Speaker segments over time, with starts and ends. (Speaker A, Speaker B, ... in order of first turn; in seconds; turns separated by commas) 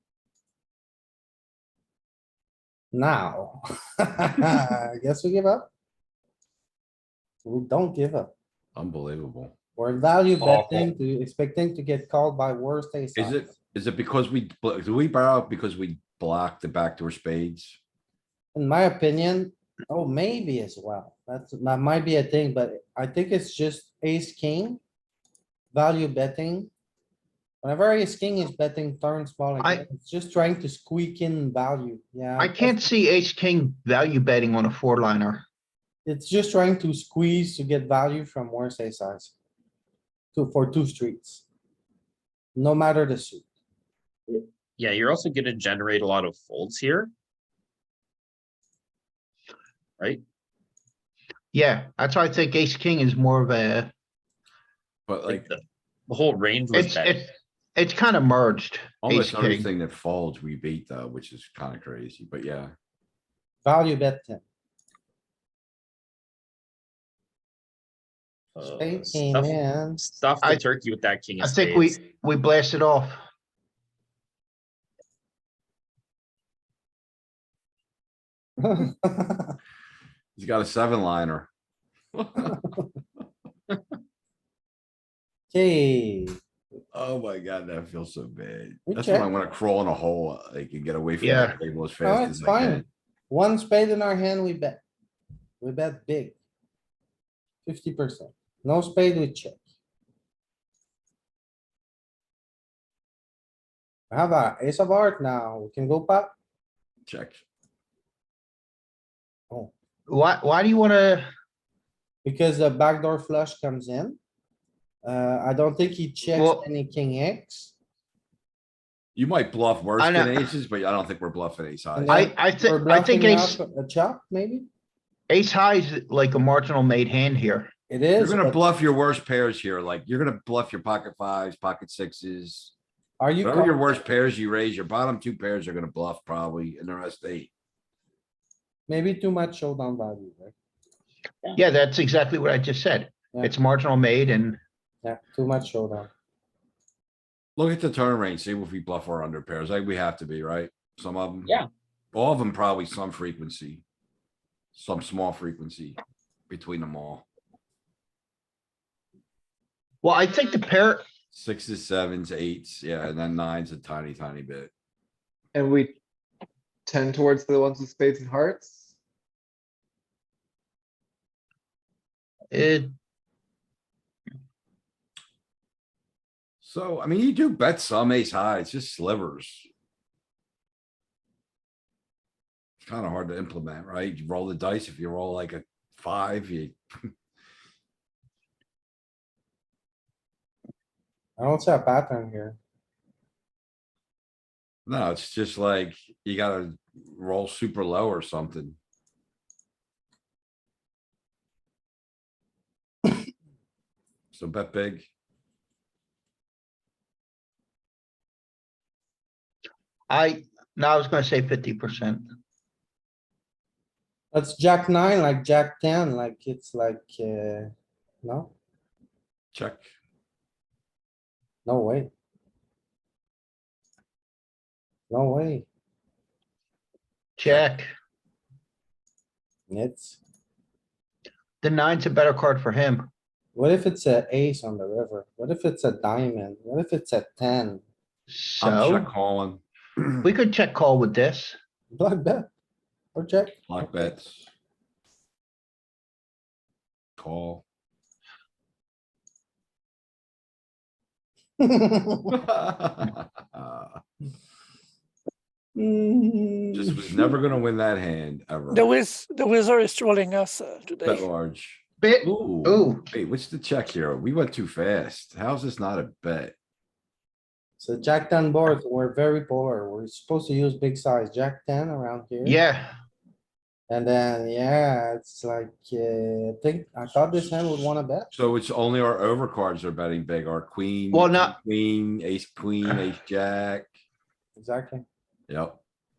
Speaker A: 2.9-5.7, Speaker A: 7.5-8.3, Speaker B: 8.8-9.5, Speaker A: 9.8-13.5, Speaker B: 10.4-10.9, Speaker B: 13.2-17.8, Speaker A: 18.6-24.8, Speaker A: 25.7-26.7, Speaker A: 27.6-32.9, Speaker C: 32.4-35.4, Speaker A: 36.0-39.4, Speaker A: 40.3-41.5, Speaker A: 42.6-43.5, Speaker D: 44.3-47.1, Speaker C: 51.5-53.9, Speaker B: 55.1-55.5, Speaker D: 55.3-57.3, Speaker C: 56.7-59.7, Speaker B: 59.0-62.7, Speaker A: 63.6-64.4, Speaker D: 68.6-72.0, Speaker A: 68.6-70.0, Speaker C: 71.4-73.2, Speaker A: 78.6-79.6, Speaker B: 80.4-81.5, Speaker B: 82.2-82.7, Speaker A: 85.5-86.4, Speaker B: 86.9-92.9, Speaker A: 88.9-89.3, Speaker C: 91.2-91.6, Speaker A: 92.0-94.8, Speaker A: 95.6-96.4, Speaker A: 97.7-99.6, Speaker A: 104.1-106.3, Speaker B: 107.1-107.4, Speaker C: 110.1-111.3, Speaker A: 112.2-114.2, Speaker A: 115.0-117.7, Speaker C: 116.3-116.7, Speaker B: 119.2-122.3, Speaker C: 120.0-120.5, Speaker A: 122.0-124.7, Speaker C: 122.1-123.6, Speaker C: 125.3-127.7, Speaker A: 127.9-128.6, Speaker B: 128.2-132.7, Speaker A: 133.2-133.8, Speaker B: 133.4-137.5, Speaker A: 138.9-140.6, Speaker C: 141.6-144.6, Speaker A: 145.0-146.1, Speaker B: 147.6-151.5, Speaker B: 152.1-153.8, Speaker B: 154.7-156.0, Speaker B: 156.5-157.2, Speaker C: 160.0-161.0, Speaker B: 161.3-164.7, Speaker E: 165.5-166.0, Speaker E: 166.9-168.9, Speaker C: 172.5-172.9, Speaker B: 176.6-179.7, Speaker B: 182.8-187.1, Speaker A: 191.4-192.6, Speaker B: 194.9-198.8, Speaker B: 204.3-205.1, Speaker C: 210.1-212.3, Speaker A: 214.3-217.7, Speaker A: 218.2-218.5, Speaker B: 219.5-219.9, Speaker A: 221.7-222.1, Speaker A: 225.1-225.7, Speaker C: 227.4-227.9, Speaker A: 229.7-230.2, Speaker C: 231.6-233.1, Speaker A: 233.6-237.8, Speaker C: 238.3-239.1, Speaker B: 238.6-239.6, Speaker C: 240.2-241.6, Speaker A: 241.9-242.5, Speaker A: 243.2-244.1, Speaker B: 243.7-244.5, Speaker B: 247.2-247.6, Speaker A: 251.6-252.4, Speaker B: 252.3-254.0, Speaker A: 255.8-257.4, Speaker B: 256.7-258.9, Speaker F: 258.7-261.3, Speaker B: 261.0-266.6, Speaker C: 262.0-263.1, Speaker A: 267.8-272.6, Speaker C: 272.4-273.0, Speaker A: 273.9-278.3, Speaker B: 277.1-277.8, Speaker B: 278.3-283.9, Speaker C: 281.1-281.5, Speaker A: 284.6-285.1, Speaker B: 285.5-285.8